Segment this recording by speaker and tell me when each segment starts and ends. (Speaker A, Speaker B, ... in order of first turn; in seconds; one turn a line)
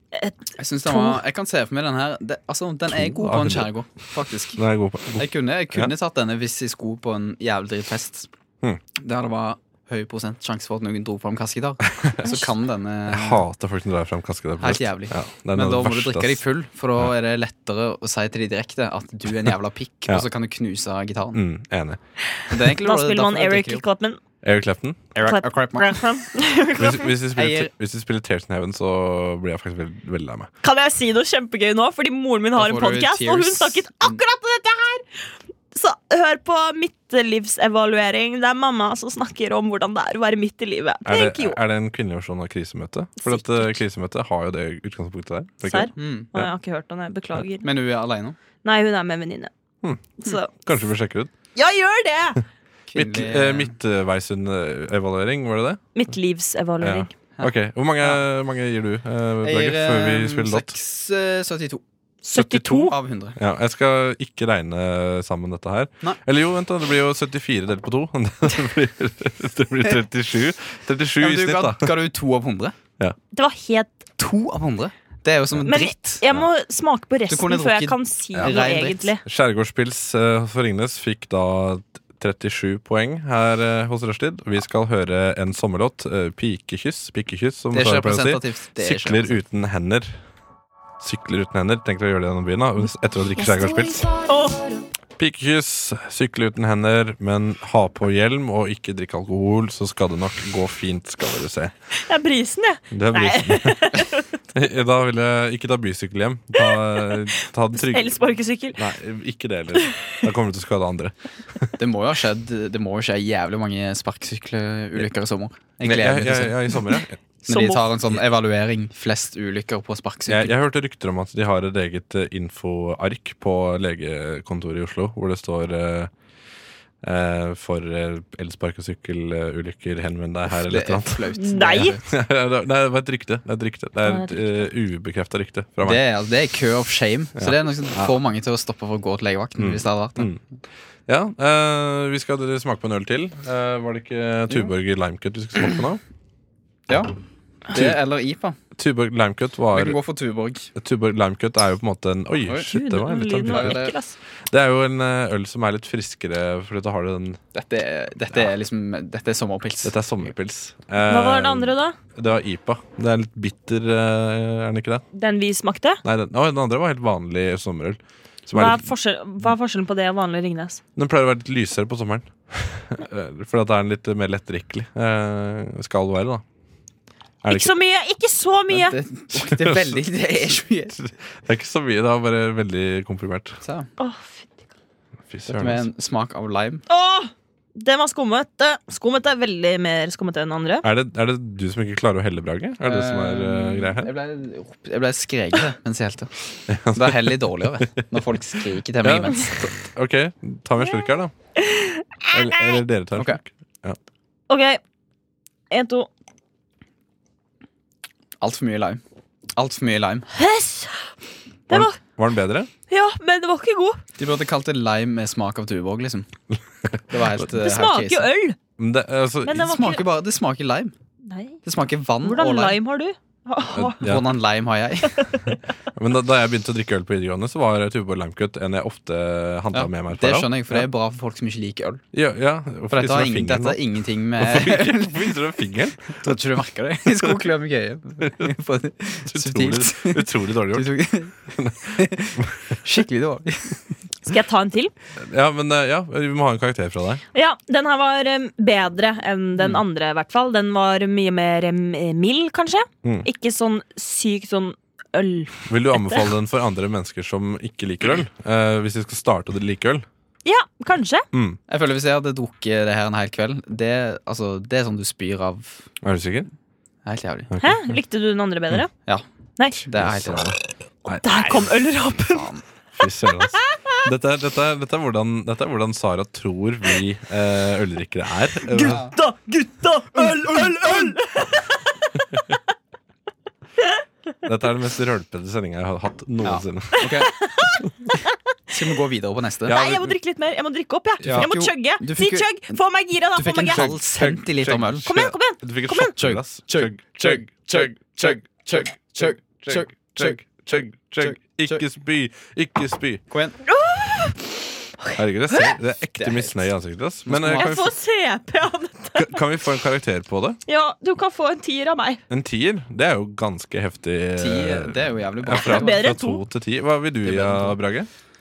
Speaker A: 0.1-1.2
Speaker B: 0.6-4.6
Speaker C: 2.9-3.7
Speaker C: 4.5-5.9
Speaker B: 5.2-8.3
Speaker B: 9.0-13.4
Speaker C: 12.0-12.4
Speaker C: 13.1-16.4
Speaker B: 14.6-21.4
Speaker C: 21.3-22.0
Speaker A: 22.4-24.2
Speaker B: 22.5-23.8
Speaker C: 24.4-25.1
Speaker B: 25.1-26.0
Speaker A: 25.2-27.1
Speaker C: 26.8-30.5
Speaker B: 27.3-27.7
Speaker A: 30.6-35.0
Speaker B: 32.5-34.2
Speaker A: 35.7-41.6
Speaker C: 41.0-46.5
Speaker A: 43.2-43.8
Speaker A: 45.6-47.7
Speaker B: 45.9-46.3
Speaker B: 47.6-48.4
Speaker A: 48.6-49.5
Speaker C: 49.8-51.3
Speaker A: 50.2-50.5
Speaker A: 51.5-52.4
Speaker B: 52.9-53.7
Speaker C: 52.9-56.0
Speaker A: 55.9-57.1
Speaker C: 56.8-60.7
Speaker B: 57.4-58.2
Speaker B: 59.4-63.4
Speaker A: 62.2-62.9
Speaker C: 63.4-72.0
Speaker B: 71.2-72.7
Speaker A: 73.3-73.9
Speaker B: 74.2-76.2
Speaker A: 75.6-79.2
Speaker B: 77.3-79.1
Speaker C: 78.3-90.2
Speaker B: 87.7-89.3
Speaker C: 91.0-94.1
Speaker A: 94.2-94.8
Speaker C: 95.2-101.7
Speaker A: 102.0-104.3
Speaker C: 102.9-108.2
Speaker A: 106.6-107.2
Speaker A: 107.7-108.8
Speaker C: 108.7-111.7
Speaker A: 109.8-110.0
Speaker B: 111.8-116.8
Speaker C: 115.8-117.2
Speaker A: 117.5-117.9
Speaker B: 117.5-120.5
Speaker C: 120.3-126.1
Speaker C: 127.0-136.0
Speaker B: 130.5-132.0
Speaker A: 131.3-132.0
Speaker A: 134.1-134.4
Speaker B: 135.8-140.3
Speaker C: 137.4-138.1
Speaker C: 139.6-140.4
Speaker C: 141.1-146.0
Speaker B: 146.9-147.1
Speaker B: 147.7-148.6
Speaker C: 147.7-148.0
Speaker C: 148.8-150.0
Speaker B: 149.7-150.7
Speaker C: 150.8-153.8
Speaker A: 152.7-154.1
Speaker B: 153.4-153.9
Speaker C: 154.5-157.4
Speaker B: 157.5-160.0
Speaker C: 159.8-165.0
Speaker A: 161.0-162.0
Speaker A: 165.1-166.0
Speaker C: 166.0-168.9
Speaker A: 168.5-170.8
Speaker C: 170.9-176.4
Speaker C: 177.4-177.7
Speaker A: 177.4-179.0
Speaker B: 178.7-181.0
Speaker C: 179.3-180.0
Speaker C: 181.0-183.6
Speaker B: 183.6-183.9
Speaker A: 184.0-184.5
Speaker C: 185.3-185.9
Speaker B: 185.5-186.8
Speaker A: 186.9-190.8
Speaker C: 190.8-194.1
Speaker B: 192.8-196.3
Speaker C: 196.7-198.2
Speaker B: 196.9-199.8
Speaker C: 199.0-201.3
Speaker A: 201.6-202.8
Speaker C: 202.3-204.0
Speaker A: 204.5-204.8
Speaker A: 205.7-206.1
Speaker B: 208.4-209.0
Speaker B: 209.6-210.3
Speaker A: 210.3-211.1
Speaker A: 211.7-212.0
Speaker C: 211.7-212.7
Speaker A: 212.9-214.0
Speaker B: 214.2-216.3
Speaker B: 217.1-218.3
Speaker A: 217.5-218.6
Speaker C: 218.8-219.9
Speaker A: 219.4-220.0
Speaker B: 219.5-220.9
Speaker A: 221.3-221.6
Speaker B: 221.6-222.8
Speaker A: 222.2-224.1
Speaker C: 223.7-224.3
Speaker B: 224.0-225.5
Speaker A: 225.2-225.5
Speaker C: 225.9-230.9
Speaker B: 229.7-232.0
Speaker C: 232.1-233.8
Speaker B: 232.9-235.3
Speaker C: 234.4-236.3
Speaker B: 236.1-241.4
Speaker C: 239.3-240.9
Speaker C: 241.5-242.4
Speaker B: 241.9-243.8
Speaker A: 244.2-244.9
Speaker C: 245.2-247.2
Speaker A: 247.3-256.2
Speaker C: 255.7-260.1
Speaker A: 260.4-261.3
Speaker C: 261.3-261.6
Speaker B: 261.7-265.9
Speaker C: 266.0-266.5
Speaker B: 267.0-267.5
Speaker C: 267.5-267.8
Speaker A: 267.6-268.9
Speaker B: 269.1-270.5
Speaker C: 269.9-271.6
Speaker A: 271.1-272.4
Speaker B: 272.2-272.6
Speaker C: 272.9-279.0
Speaker A: 273.6-274.0
Speaker A: 278.6-282.6
Speaker B: 278.8-279.1
Speaker C: 284.4-287.2
Speaker B: 286.4-287.3
Speaker A: 287.2-288.3
Speaker B: 288.7-289.8
Speaker C: 289.6-290.1
Speaker A: 289.7-293.9
Speaker C: 291.2-291.5
Speaker B: 291.3-292.7
Speaker B: 293.3-295.1
Speaker C: 293.7-303.2
Speaker A: 295.1-296.1
Speaker B: 296.1-301.8
Speaker B: 303.3-303.6
Speaker A: 303.7-304.5
Speaker C: 305.1-307.9
Speaker B: 306.2-306.6
Speaker B: 307.3-307.8
Speaker A: 307.5-309.4
Speaker C: 309.1-310.6
Speaker A: 310.7-312.2
Speaker C: 312.3-318.1
Speaker B: 314.4-316.1
Speaker A: 315.5-316.4
Speaker B: 317.2-317.8